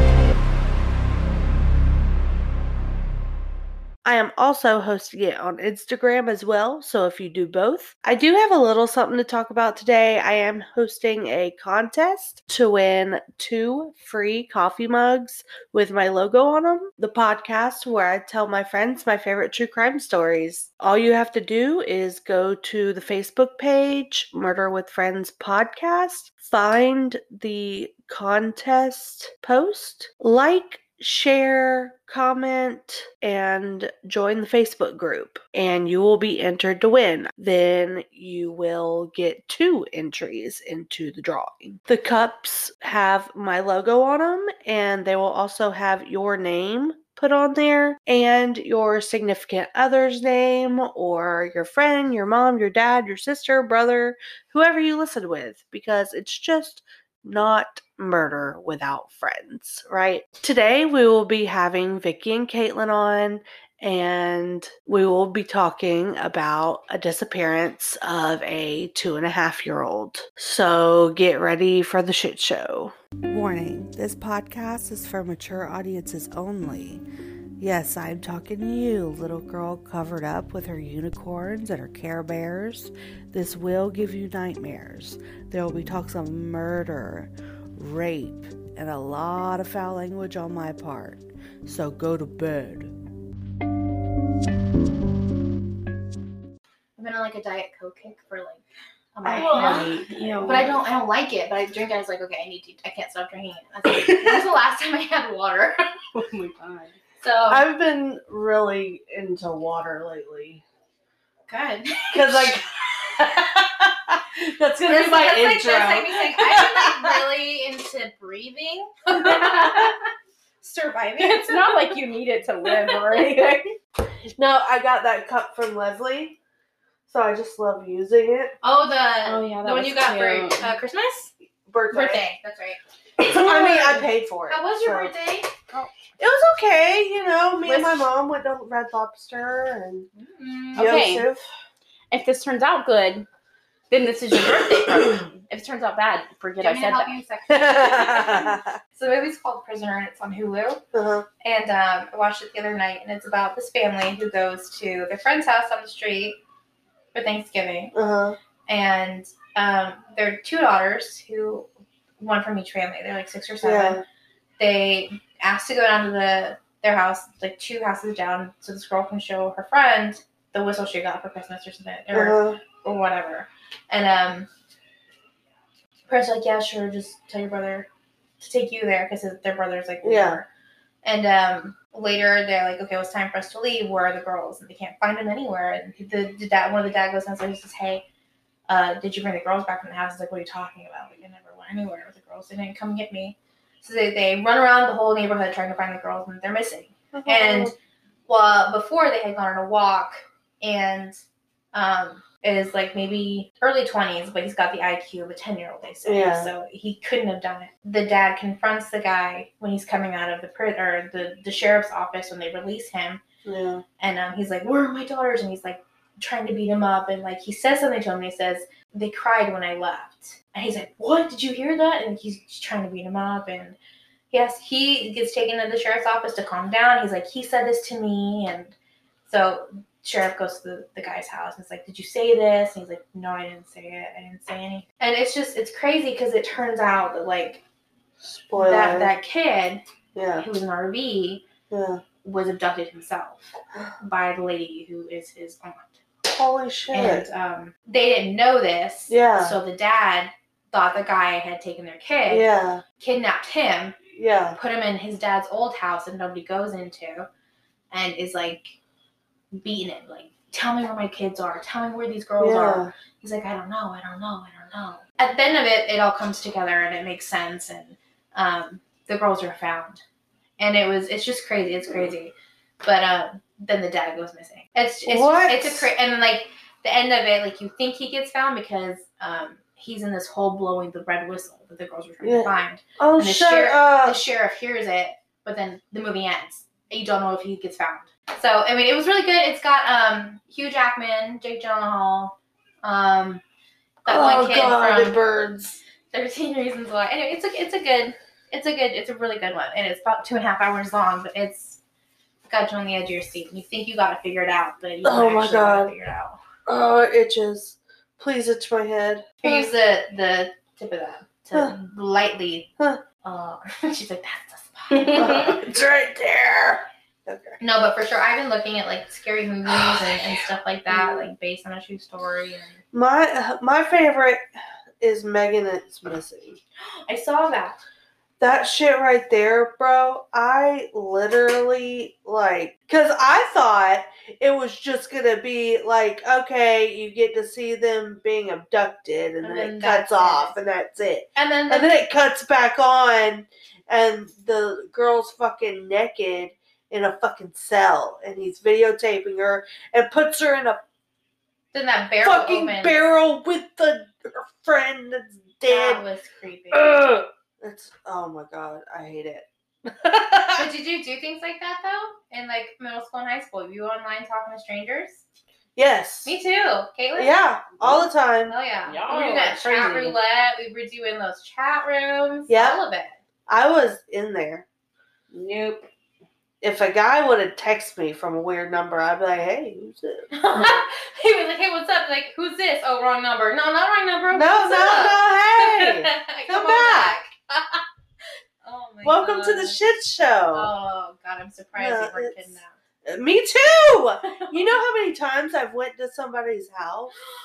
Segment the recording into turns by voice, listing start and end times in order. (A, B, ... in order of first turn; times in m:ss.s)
0:04.0-1:17.0 A
1:17.6-1:32.9 A
1:37.0-1:38.6 B
1:39.1-1:45.9 B
1:39.2-1:40.7 A
1:39.3-1:40.7 C
1:43.9-1:44.4 A
1:46.1-1:47.0 C
1:47.2-1:47.6 B
1:47.5-1:50.6 A
1:51.5-1:53.3 B
1:52.1-1:57.2 A
1:54.8-1:59.9 B
1:59.2-2:00.0 C
2:00.6-2:01.9 B
2:01.2-2:03.7 C
2:04.4-2:06.4 A
2:07.1-2:08.6 A
2:08.6-2:11.3 B
2:09.2-2:10.7 C
2:11.6-2:12.2 A
2:11.9-2:15.6 B
2:13.2-2:15.1 A
2:16.2-2:20.1 A
2:17.6-2:17.9 C
2:20.1-2:21.0 B
2:20.8-2:21.3 C
2:20.8-2:21.4 A
2:22.1-2:23.3 C
2:23.9-2:27.2 C
2:26.6-2:30.8 B
2:27.5-2:28.8 A
2:30.9-2:31.3 A
2:31.4-2:36.4 B
2:37.1-2:37.9 B
2:37.9-2:38.4 A
2:38.7-2:41.7 B
2:42.2-2:44.0 B
2:43.6-2:44.0 A
2:44.6-2:54.5 B
2:52.1-2:52.6 A
2:56.1-2:57.9 B
2:58.4-3:00.5 B
3:00.0-3:00.4 A
3:01.0-3:08.0 B
3:08.7-3:17.7 B
3:17.1-3:17.7 A
3:18.3-3:21.2 B
3:21.7-3:33.2 B
3:26.0-3:26.5 A
3:33.4-3:33.8 A
3:34.0-3:43.8 B
3:44.3-3:48.7 B
3:49.2-3:57.6 B
3:58.2-3:59.1 A
3:58.5-3:59.8 B
4:00.1-4:00.4 A
4:00.4-4:01.4 B
4:01.7-4:02.0 A
4:02.2-4:06.0 B
4:06.2-4:07.3 A
4:06.9-4:12.5 B
4:09.1-4:09.6 A
4:12.3-4:12.8 A
4:13.0-4:14.0 B
4:14.1-4:14.6 A
4:14.6-4:17.3 B
4:17.9-4:18.8 B
4:19.6-4:30.0 B
4:22.4-4:22.9 A
4:30.6-4:53.4 B
4:35.1-4:35.9 A
4:42.2-4:44.2 A
4:54.0-4:55.2 B
4:54.1-4:55.8 A
4:56.1-5:01.8 B
5:02.4-5:06.4 B
5:05.0-5:05.9 A
5:06.6-5:09.7 A
5:09.4-5:12.7 B
5:13.2-5:15.6 B
5:14.9-5:15.6 C
5:15.1-5:17.6 A
5:17.6-5:22.8 B
5:19.7-5:20.3 A
5:20.9-5:21.3 A
5:22.9-5:24.4 A
5:25.0-5:26.6 A
5:27.1-5:27.8 B
5:28.4-5:50.8 A
5:39.4-5:40.6 B
5:41.4-5:41.9 B
5:51.7-5:53.0 B
5:52.2-5:56.0 A
5:55.6-5:57.0 B
5:56.7-6:00.7 A
6:00.6-6:05.2 B
6:05.8-6:06.4 A
6:06.2-6:07.4 B
6:07.1-6:08.6 A
6:08.5-6:13.2 B
6:08.9-6:10.2 C
6:12.5-6:12.8 A
6:13.5-6:14.6 A
6:15.3-6:15.9 C
6:16.6-6:20.7 A
6:20.3-6:27.8 B
6:24.3-6:27.2 A
6:28.6-6:29.8 B
6:29.0-6:30.7 A
6:30.5-6:32.7 B
6:31.8-6:37.1 A